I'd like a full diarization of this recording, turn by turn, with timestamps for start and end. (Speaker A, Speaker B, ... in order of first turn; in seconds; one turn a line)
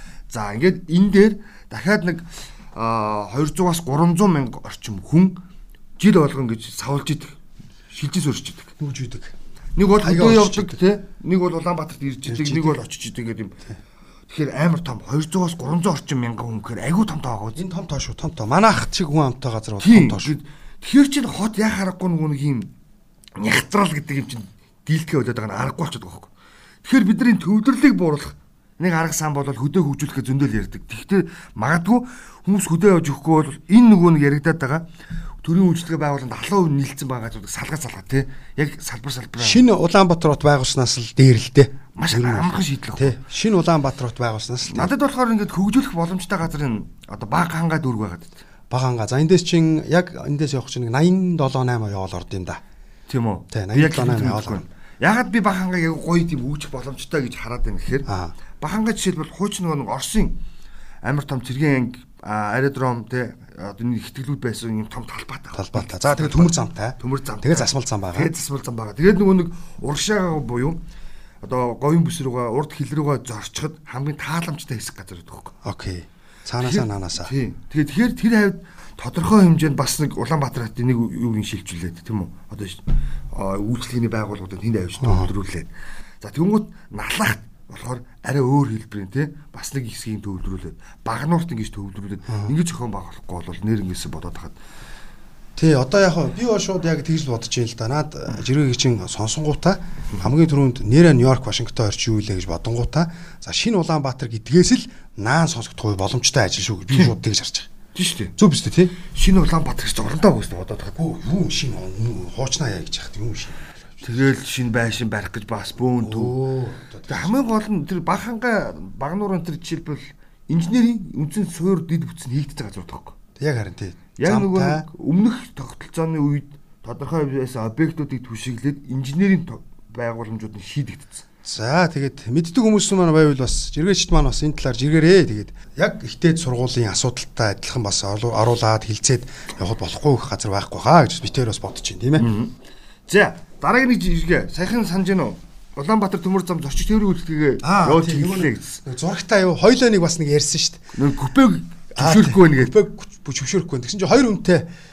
Speaker A: 0.3-5.4
Speaker A: 6.0-7.4
Speaker A: 7.9-8.7
Speaker B: 8.8-9.3
Speaker A: 9.8-13.6
Speaker B: 10.0-10.8
Speaker B: 12.2-12.8
Speaker A: 14.3-17.6
Speaker B: 17.6-20.3
Speaker A: 19.8-22.7
Speaker A: 23.4-26.3
Speaker A: 26.8-34.9
Speaker A: 35.4-39.6
Speaker B: 39.4-44.9
Speaker A: 41.9-43.2
Speaker A: 44.7-48.4
Speaker B: 48.7-52.6
Speaker A: 53.1-58.1
Speaker B: 53.5-54.6
Speaker B: 58.1-58.3
Speaker A: 58.6-60.4
Speaker A: 61.0-70.8
Speaker B: 65.5-68.3
Speaker A: 71.4-75.5
Speaker B: 75.6-77.3
Speaker A: 76.6-85.7
Speaker B: 85.0-85.3
Speaker A: 86.2-94.5
Speaker B: 95.5-107.7
Speaker A: 107.9-108.3
Speaker B: 108.4-108.9
Speaker A: 109.0-111.0
Speaker B: 111.0-114.0
Speaker A: 114.0-116.3
Speaker B: 116.0-117.4
Speaker A: 117.1-123.1
Speaker B: 123.4-124.8
Speaker A: 124.2-131.2
Speaker B: 131.4-142.3
Speaker A: 142.2-142.5
Speaker A: 143.1-148.8
Speaker B: 147.6-150.8
Speaker A: 150.9-152.8
Speaker B: 151.9-154.7